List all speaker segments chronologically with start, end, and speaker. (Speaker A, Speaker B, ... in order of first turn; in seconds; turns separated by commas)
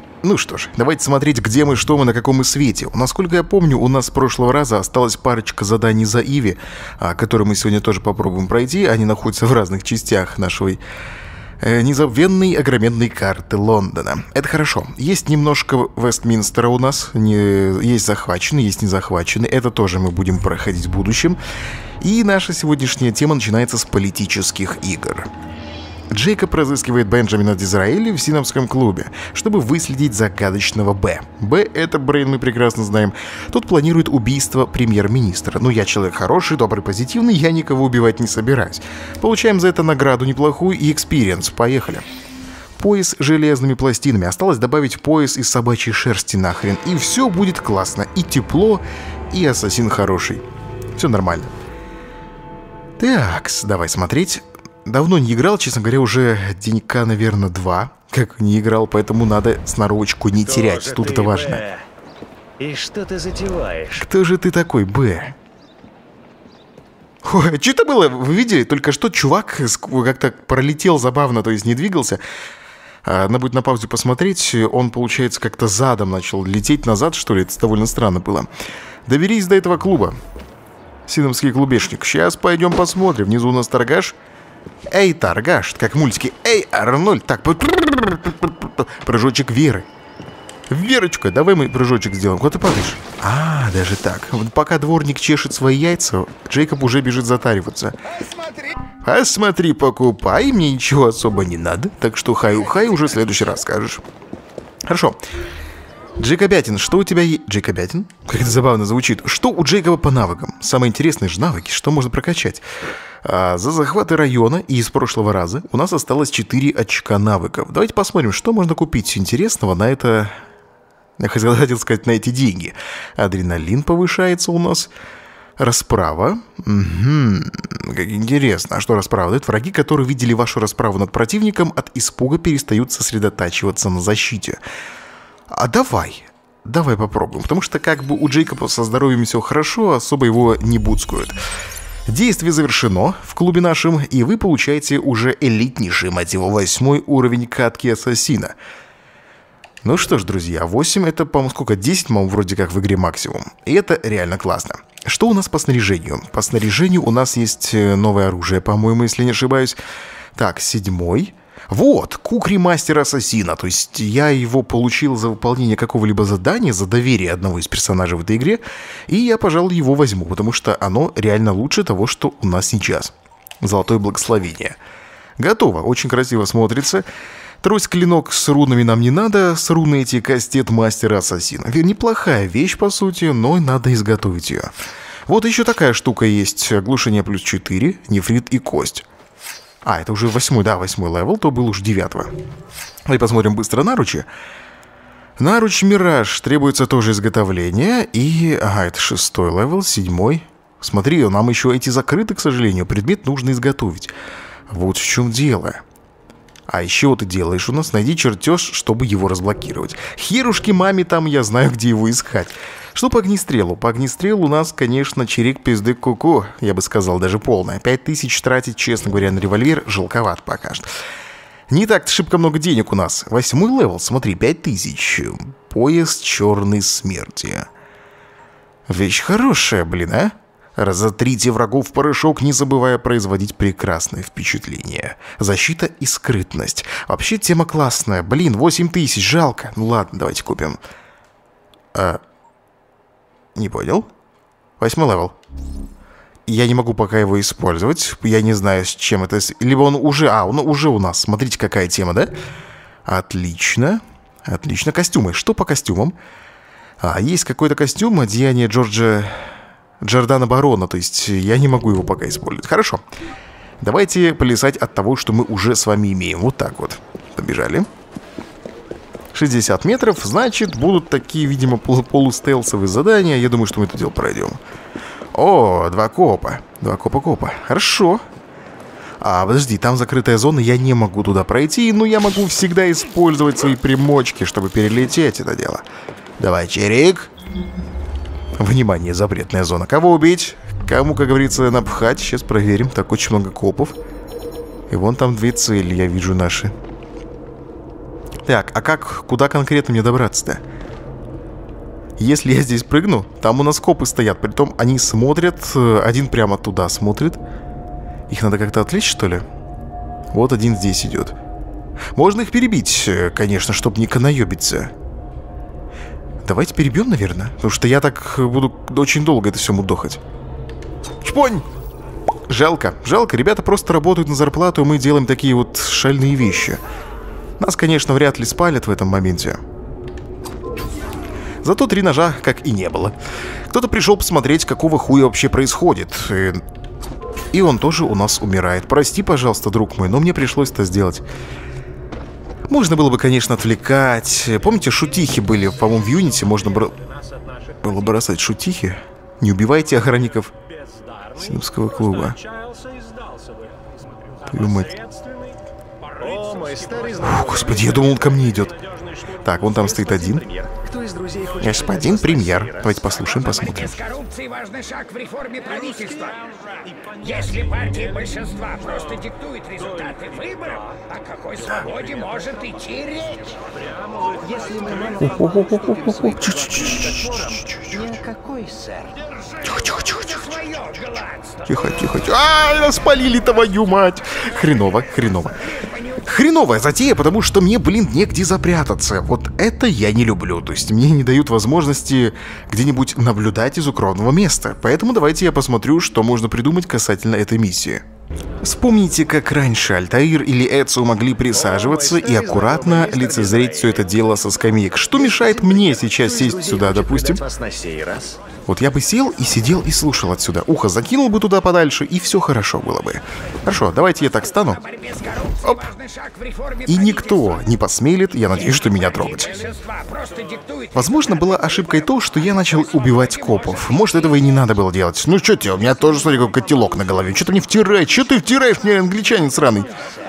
Speaker A: 0.2-10.8, Speaker A: 11.6-21.4, Speaker A: 22.0-25.3, Speaker A: 26.1-42.0, Speaker A: 42.8-50.4, Speaker A: 51.0-51.5, Speaker A: 53.0-61.6, Speaker B: 60.4-61.9, Speaker B: 62.6-64.1, Speaker A: 64.0-65.3, Speaker A: 67.2-72.2, Speaker A: 73.0-78.5, Speaker A: 79.0-80.2, Speaker A: 81.1-84.1, Speaker A: 84.9-89.9, Speaker A: 90.7-98.0, Speaker A: 99.0-104.0, Speaker A: 104.9-105.2, Speaker A: 106.2-112.6, Speaker A: 113.2-120.3, Speaker A: 121.2-124.9, Speaker A: 125.6-134.6, Speaker A: 135.5-141.4, Speaker A: 142.1-148.5, Speaker A: 149.8-159.8, Speaker A: 160.3-174.8, Speaker A: 175.4-177.1, Speaker A: 177.6-184.7, Speaker A: 185.3-189.0, Speaker A: 189.8-192.3, Speaker A: 193.1-194.3, Speaker A: 195.4-204.1, Speaker A: 204.7-205.8, Speaker A: 206.7-220.9, Speaker A: 221.7-227.7, Speaker A: 228.9-240.8, Speaker A: 241.9-242.2, Speaker A: 243.5-244.1, Speaker A: 244.8-245.3, Speaker A: 246.5-252.3, Speaker A: 253.1-256.1, Speaker A: 257.0-259.4, Speaker A: 260.0-263.0, Speaker A: 263.8-267.9, Speaker A: 269.3-274.6, Speaker A: 275.3-278.2, Speaker A: 279.2-285.8, Speaker A: 286.4-287.3, Speaker A: 288.6-293.9, Speaker A: 294.9-296.7, Speaker A: 298.4-300.6, Speaker A: 302.2-307.4, Speaker A: 308.3-309.4, Speaker A: 310.3-311.3, Speaker A: 312.1-314.9, Speaker A: 316.4-320.2, Speaker A: 321.2-321.7, Speaker A: 322.5-326.8, Speaker A: 327.6-329.6, Speaker A: 331.6-333.1, Speaker A: 333.7-336.6, Speaker A: 337.5-341.2, Speaker A: 342.7-347.0, Speaker A: 347.8-350.5, Speaker A: 351.3-352.4, Speaker C: 352.7-353.6, Speaker A: 354.5-354.9, Speaker B: 356.2-358.2, Speaker A: 357.2-358.8, Speaker A: 359.4-360.4, Speaker B: 359.7-363.4, Speaker A: 361.6-364.0, Speaker C: 363.3-366.5, Speaker C: 367.1-375.9, Speaker B: 374.6-379.0, Speaker A: 375.2-378.0, Speaker C: 379.5-381.8, Speaker A: 379.6-380.7, Speaker A: 381.6-385.6, Speaker C: 384.4-386.3, Speaker A: 386.2-398.0, Speaker A: 398.6-407.4, Speaker B: 401.5-404.2, Speaker B: 405.1-408.4, Speaker A: 408.7-414.8, Speaker C: 414.6-417.7, Speaker A: 415.6-415.9, Speaker A: 416.9-419.5, Speaker C: 418.5-424.5, Speaker A: 420.9-429.9